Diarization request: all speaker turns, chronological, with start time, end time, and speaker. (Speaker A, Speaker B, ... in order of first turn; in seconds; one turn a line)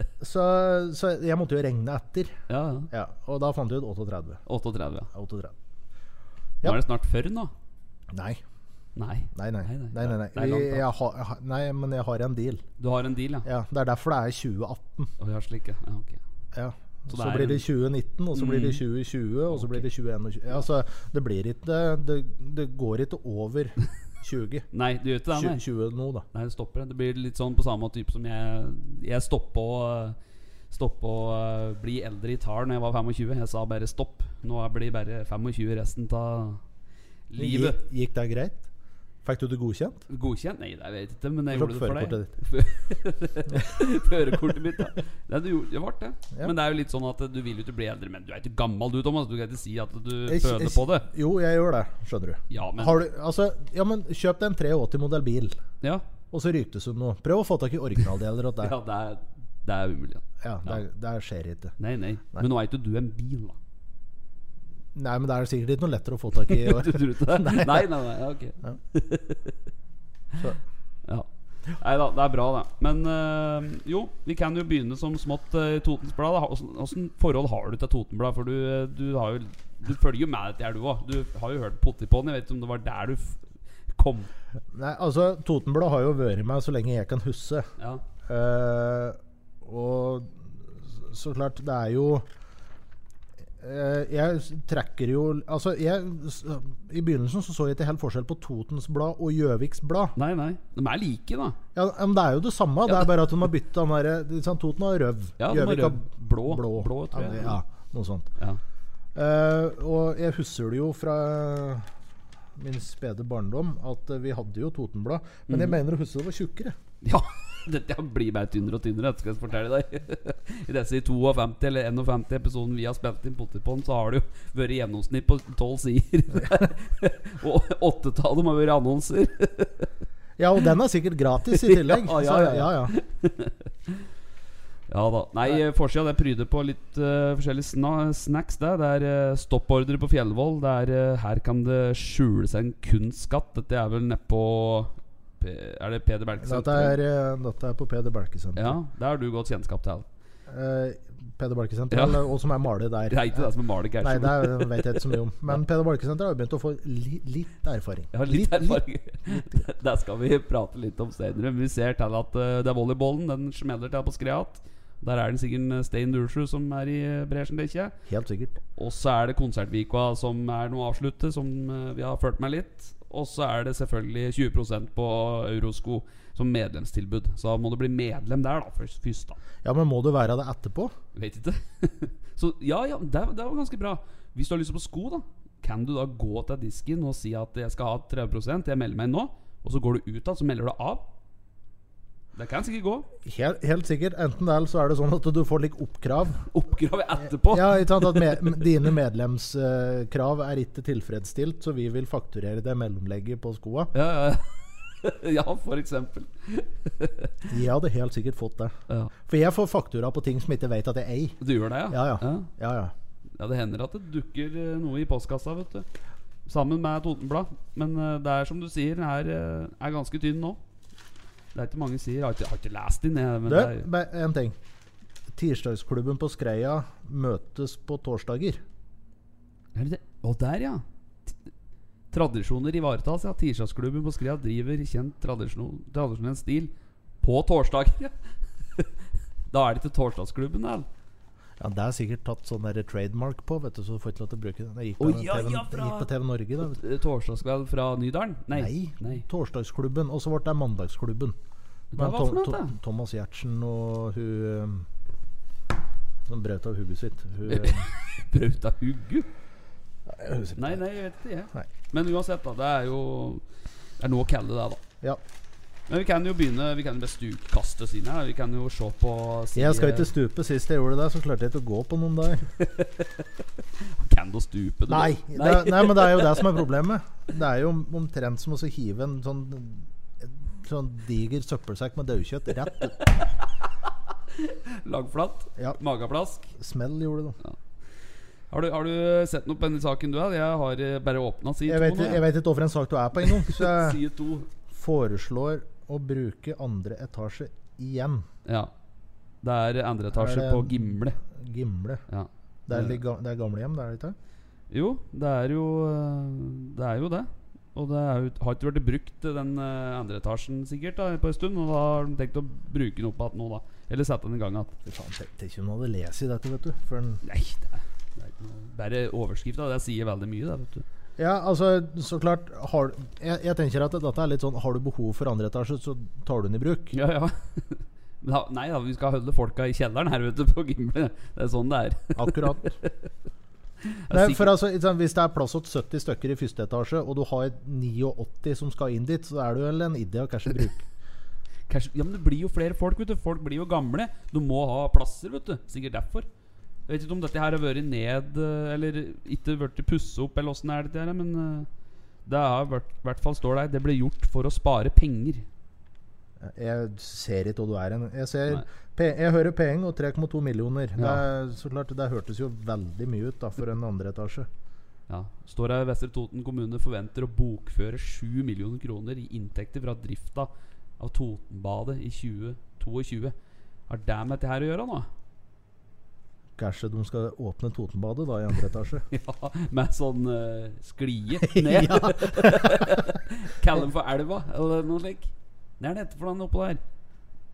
Speaker A: 0.2-2.4
Speaker B: 2.5-2.9
Speaker A: 2.9-4.4
Speaker B: 4.5-5.1
Speaker A: 5.1-5.5
Speaker B: 6.6-7.5
Speaker A: 8.1-8.4
Speaker B: 8.9-10.8
Speaker A: 9.3-12.6
Speaker B: 12.8-13.5
Speaker A: 13.4-15.1
Speaker B: 15.2-16.2
Speaker A: 16.5-24.6
Speaker B: 17.1-17.6
Speaker B: 18.3-18.8
Speaker B: 19.5-19.9
Speaker B: 24.7-25.6
Speaker A: 25.3-26.2
Speaker B: 26.3-30.2
Speaker B: 30.7-36.6
Speaker B: 37.3-37.8
Speaker A: 37.4-38.6
Speaker A: 39.2-40.0
Speaker B: 40.1-51.1
Speaker A: 41.5-42.3
Speaker A: 50.3-55.6
Speaker B: 52.5-53.0
Speaker A: 56.3-58.7
Speaker B: 58.6-60.8
Speaker A: 60.4-61.7
Speaker B: 61.8-63.5
Speaker A: 64.9-67.9
Speaker B: 66.5-69.6
Speaker B: 71.0-84.3
Speaker A: 84.7-87.7
Speaker A: 88.2-92.3
Speaker A: 93.6-100.1
Speaker B: 100.2-101.6
Speaker A: 101.7-108.3
Speaker B: 105.4-107.6
Speaker A: 109.1-111.9
Speaker A: 112.5-116.8
Speaker B: 115.5-115.8
Speaker B: 117.0-129.9
Speaker A: 130.4-132.9
Speaker B: 131.6-134.0
Speaker B: 134.9-147.0
Speaker A: 146.4-148.8
Speaker B: 148.6-150.1
Speaker A: 150.5-159.7
Speaker B: 151.9-152.2
Speaker B: 153.1-155.1
Speaker B: 158.1-167.9
Speaker A: 168.1-168.6
Speaker B: 168.8-179.4
Speaker A: 179.6-180.9
Speaker B: 181.1-191.1
Speaker B: 192.3-193.1
Speaker A: 193.2-196.5
Speaker B: 196.5-198.6
Speaker A: 197.5-203.9
Speaker B: 203.9-207.5
Speaker A: 207.5-211.4
Speaker B: 211.4-212.5
Speaker A: 211.9-212.9
Speaker B: 213.4-215.9
Speaker B: 216.4-220.6
Speaker B: 221.5-223.9
Speaker A: 223.4-224.6
Speaker A: 225.3-228.6
Speaker B: 229.7-231.3
Speaker B: 232.1-238.1
Speaker B: 239.5-240.9
Speaker A: 241.6-246.8
Speaker B: 245.0-246.1
Speaker B: 246.6-249.2
Speaker A: 248.5-251.4
Speaker B: 251.9-252.7
Speaker A: 251.9-254.9
Speaker A: 256.3-257.8
Speaker B: 257.4-259.3
Speaker A: 260.1-260.8
Speaker B: 260.6-263.4
Speaker B: 264.0-264.8
Speaker B: 265.9-270.1
Speaker A: 269.5-272.5
Speaker B: 272.6-273.1
Speaker B: 273.8-276.5
Speaker A: 274.9-282.9
Speaker B: 283.0-283.4
Speaker B: 284.3-286.5
Speaker A: 286.5-287.4
Speaker B: 288.5-292.2
Speaker A: 291.7-294.0
Speaker B: 293.2-294.5
Speaker A: 294.7-298.2
Speaker B: 298.4-298.7
Speaker B: 299.4-301.2
Speaker A: 300.1-302.0
Speaker B: 302.1-303.0
Speaker A: 302.7-304.1
Speaker B: 304.7-314.8
Speaker A: 314.9-317.2
Speaker B: 317.2-320.8
Speaker A: 321.2-326.9
Speaker B: 326.9-332.9
Speaker A: 332.1-332.8
Speaker B: 333.9-334.5
Speaker A: 334.1-340.9
Speaker B: 341.7-346.3
Speaker B: 346.9-351.7
Speaker B: 352.2-355.4
Speaker A: 356.4-364.5
Speaker B: 361.0-361.2
Speaker B: 365.1-373.3
Speaker B: 373.9-375.1
Speaker A: 376.6-379.0
Speaker B: 379.1-386.8
Speaker A: 381.4-383.1